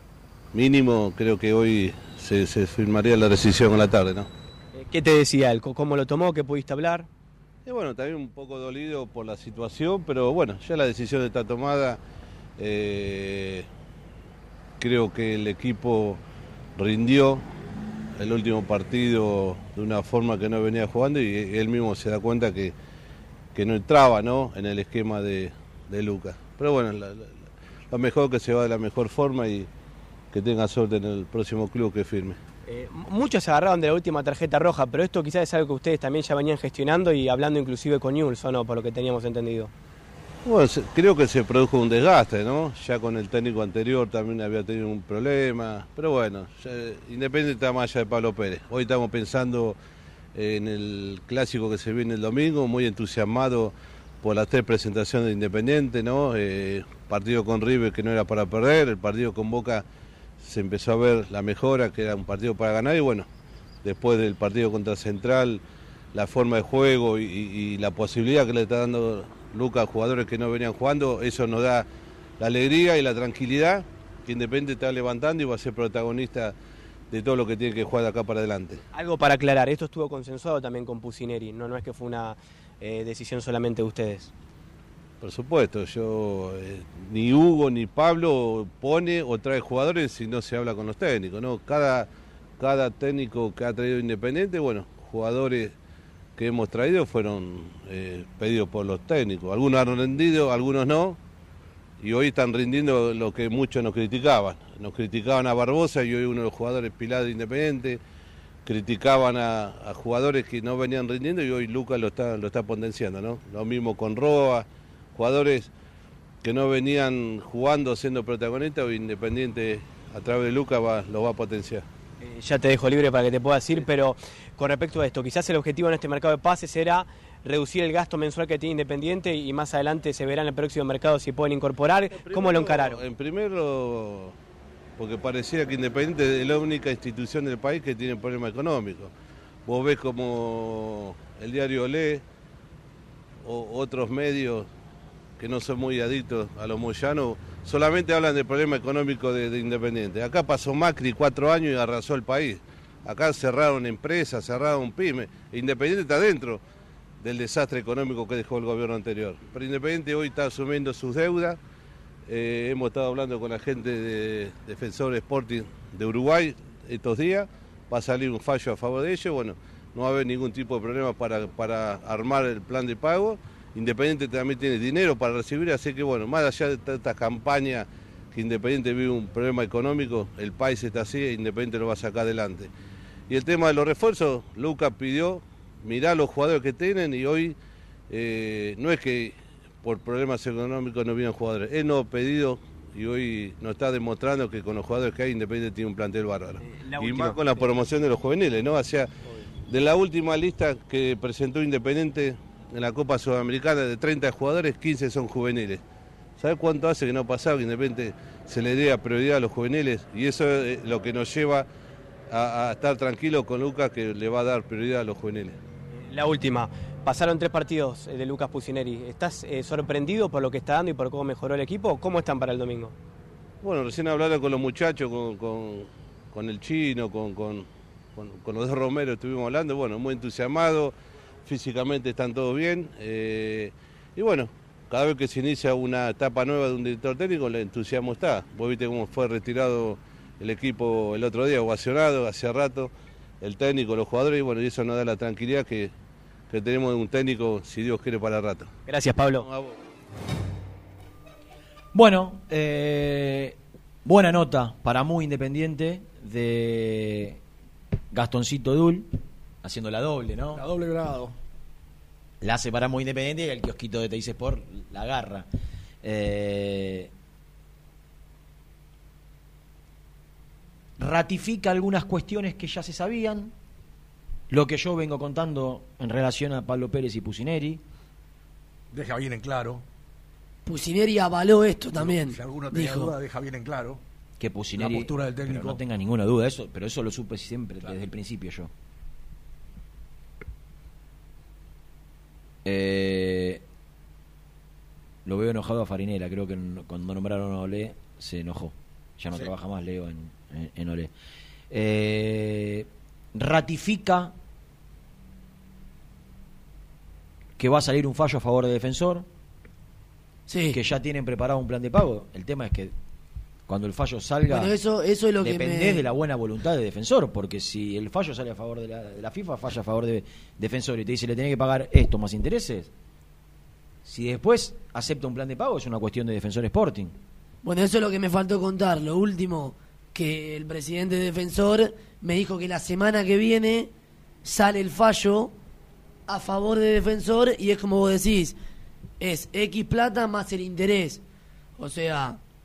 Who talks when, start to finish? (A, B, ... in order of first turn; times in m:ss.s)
0:00.5-0:04.3 A
0:04.7-0:07.1 B
0:07.6-0:12.0 A
0:12.6-0:13.6 A
0:14.8-0:16.2 A
0:16.8-0:17.4 A
0:18.2-0:22.7 A
0:23.5-0:27.3 A
0:27.9-0:29.7 A
0:30.3-0:32.4 A
0:32.7-0:39.7 B
0:40.4-0:49.8 A
0:50.3-0:59.8 A
1:00.4-1:03.3 A
1:03.8-1:05.6 A
1:06.1-1:11.9 A
1:12.4-1:16.5 A
1:17.1-1:18.8 A
1:18.9-1:24.3 B
1:25.2-1:32.1 A
1:32.6-1:35.7 A
1:36.4-1:41.2 A
1:42.0-1:48.0 A
1:48.6-1:55.7 A
1:56.4-2:01.8 A
2:02.2-2:13.0 B
2:12.2-2:14.4 A
2:15.0-2:19.1 A
2:19.6-2:22.2 A
2:23.4-2:24.7 A
2:25.4-2:36.6 A
2:37.2-2:41.6 A
2:42.3-3:02.7 A
3:03.3-3:07.6 A
3:08.1-3:19.1 A
3:16.7-3:17.4 B
3:19.7-3:25.8 A
3:26.4-3:31.7 A
3:32.3-3:35.6 A
3:35.9-3:42.9 B
3:43.6-3:50.9 A
3:51.4-4:05.9 A
4:06.5-4:08.7 A
4:08.9-4:09.4 B
4:09.4-4:09.8 A
4:11.9-4:17.4 C
4:18.1-4:19.1 C
4:19.6-4:20.6 C
4:20.5-4:21.4 D
4:22.4-4:25.5 C
4:26.0-4:27.1 C
4:31.0-4:33.5 C
4:34.5-4:37.8 C
4:38.9-4:39.8 D
4:40.6-4:43.1 E
4:41.9-4:44.0 D
4:44.4-4:48.7 C
4:44.8-4:45.8 D
4:52.6-4:53.6 C
4:55.2-5:01.1 C
5:01.7-5:04.3 C
5:07.6-5:09.2 C
5:10.5-5:10.8 E
5:10.7-5:12.9 C
5:13.7-5:14.7 C
5:14.5-5:16.0 E
5:15.4-5:22.9 C
5:24.0-5:27.1 C
5:27.6-5:33.9 E
5:34.4-5:35.5 E
5:36.3-5:38.5 E
5:39.2-5:41.2 E
5:41.8-5:42.4 E